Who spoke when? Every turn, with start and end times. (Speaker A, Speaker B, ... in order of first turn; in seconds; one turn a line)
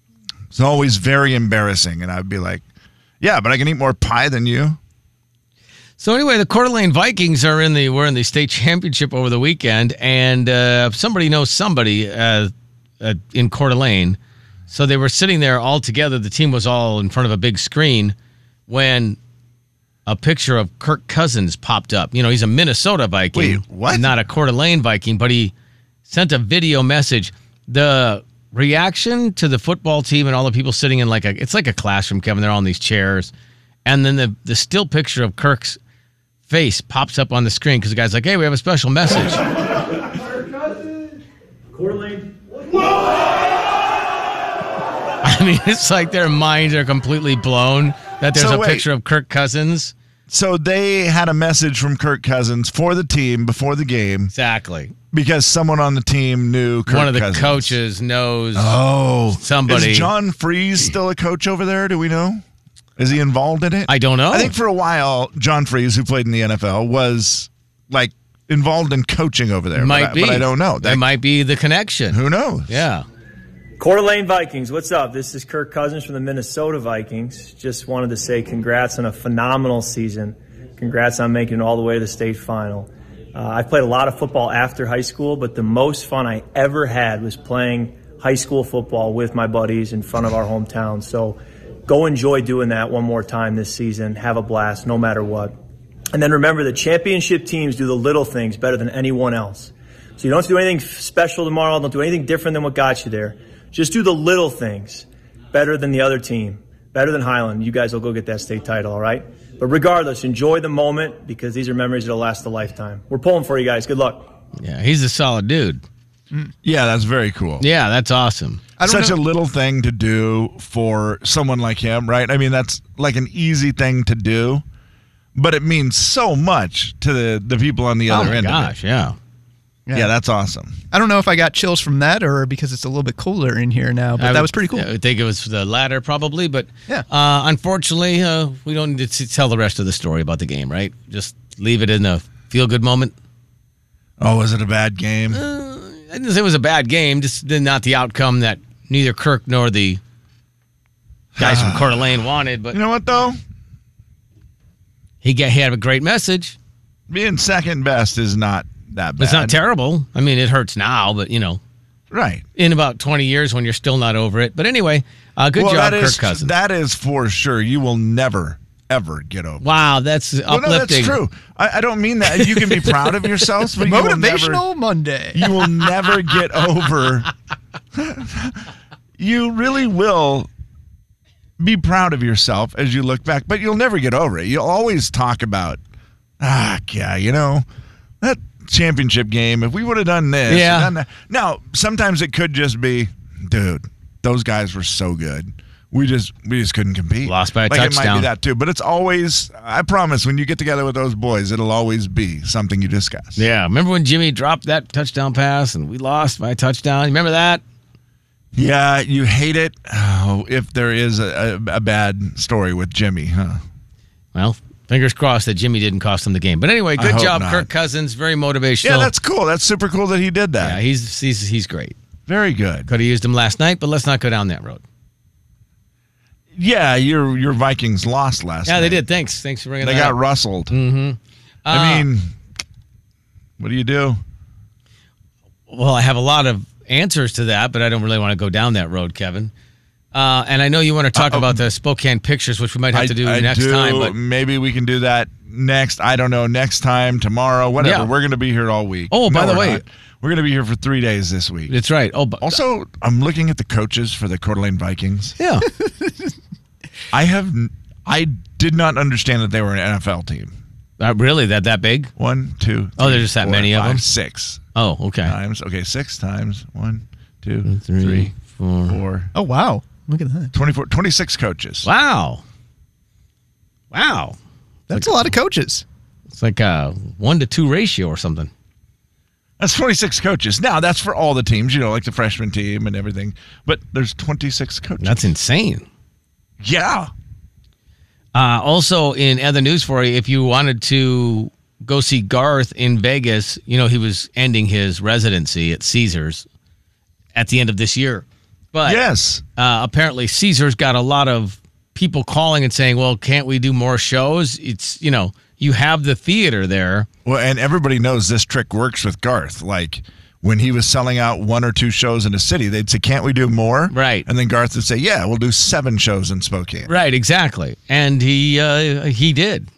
Speaker A: 0.5-2.6
Speaker A: 3.2-4.8
Speaker B: 6.0-18.1
Speaker B: 18.7-19.2
Speaker B: 20.1-25.5
Speaker A: 23.3-24.1
Speaker B: 26.1-33.3
Speaker B: 33.9-35.8
Speaker B: 36.5-39.4
Speaker B: 45.2-49.9
Speaker A: 48.3-48.9
Speaker A: 50.3-54.3
Speaker B: 54.3-54.9
Speaker A: 55.1-57.8
Speaker B: 56.9-58.8
Speaker A: 58.5-62.4
Speaker B: 59.3-60.1
Speaker A: 63.0-71.0
Speaker B: 63.9-64.5
Speaker B: 69.8-73.0
Speaker A: 72.1-72.8
Speaker C: 73.8-95.5
Speaker C: 96.1-114.3
Speaker B: 114.6-115.8
Speaker A: 116.6-117.7
Speaker B: 117.6-118.6
Speaker D: 118.8-119.2
Speaker A: 118.8-124.6
Speaker A: 125.3-128.7
Speaker B: 128.1-129.2
Speaker D: 129.9-130.1
Speaker A: 129.9-130.8
Speaker D: 130.9-134.9
Speaker B: 134.2-143.2
Speaker A: 144.2-145.4
Speaker B: 145.3-150.0
Speaker A: 151.4-152.1
Speaker B: 151.4-152.8
Speaker A: 152.7-153.4
Speaker B: 155.2-156.6
Speaker A: 157.1-159.6
Speaker B: 159.2-161.6
Speaker A: 162.1-162.4
Speaker B: 162.6-166.5
Speaker A: 165.6-169.7
Speaker B: 169.6-171.2
Speaker A: 170.5-174.6
Speaker B: 172.3-172.9
Speaker D: 173.8-175.7
Speaker A: 175.3-177.3
Speaker A: 177.9-178.7
Speaker A: 179.2-180.5
Speaker A: 181.6-185.8
Speaker A: 186.4-187.7
Speaker A: 188.2-203.4
Speaker B: 190.5-190.9
Speaker B: 197.2-198.3
Speaker B: 203.4-207.6
Speaker A: 208.5-213.6
Speaker B: 214.3-219.1
Speaker A: 217.0-217.7
Speaker A: 218.8-220.8
Speaker B: 220.6-222.0
Speaker A: 222.3-222.9
Speaker B: 222.9-224.8
Speaker A: 226.6-229.0
Speaker B: 228.7-230.2
Speaker A: 229.8-230.8
Speaker B: 230.7-232.1
Speaker A: 231.7-232.3
Speaker A: 233.6-234.2
Speaker B: 235.7-239.5
Speaker B: 240.1-244.1
Speaker A: 241.2-241.6
Speaker A: 242.9-251.7
Speaker B: 247.8-248.1
Speaker B: 249.1-249.8
Speaker B: 251.7-252.6
Speaker A: 252.4-255.3
Speaker B: 255.4-255.7
Speaker A: 257.1-260.6
Speaker B: 261.0-262.1
Speaker A: 262.2-264.6
Speaker B: 263.0-264.0
Speaker B: 264.8-265.3
Speaker A: 265.2-268.3
Speaker B: 267.6-269.0
Speaker A: 268.9-269.3
Speaker D: 269.3-270.5
Speaker A: 270.5-271.9
Speaker B: 271.8-272.4
Speaker B: 273.9-274.4
Speaker D: 274.9-275.9
Speaker B: 274.9-275.3
Speaker B: 276.4-278.5
Speaker A: 279.6-285.3
Speaker B: 285.0-285.9
Speaker A: 286.6-287.1
Speaker B: 288.4-296.5
Speaker B: 297.4-299.0
Speaker A: 298.9-299.4
Speaker B: 299.6-307.1
Speaker A: 307.2-316.9
Speaker B: 313.9-314.3
Speaker B: 316.9-319.7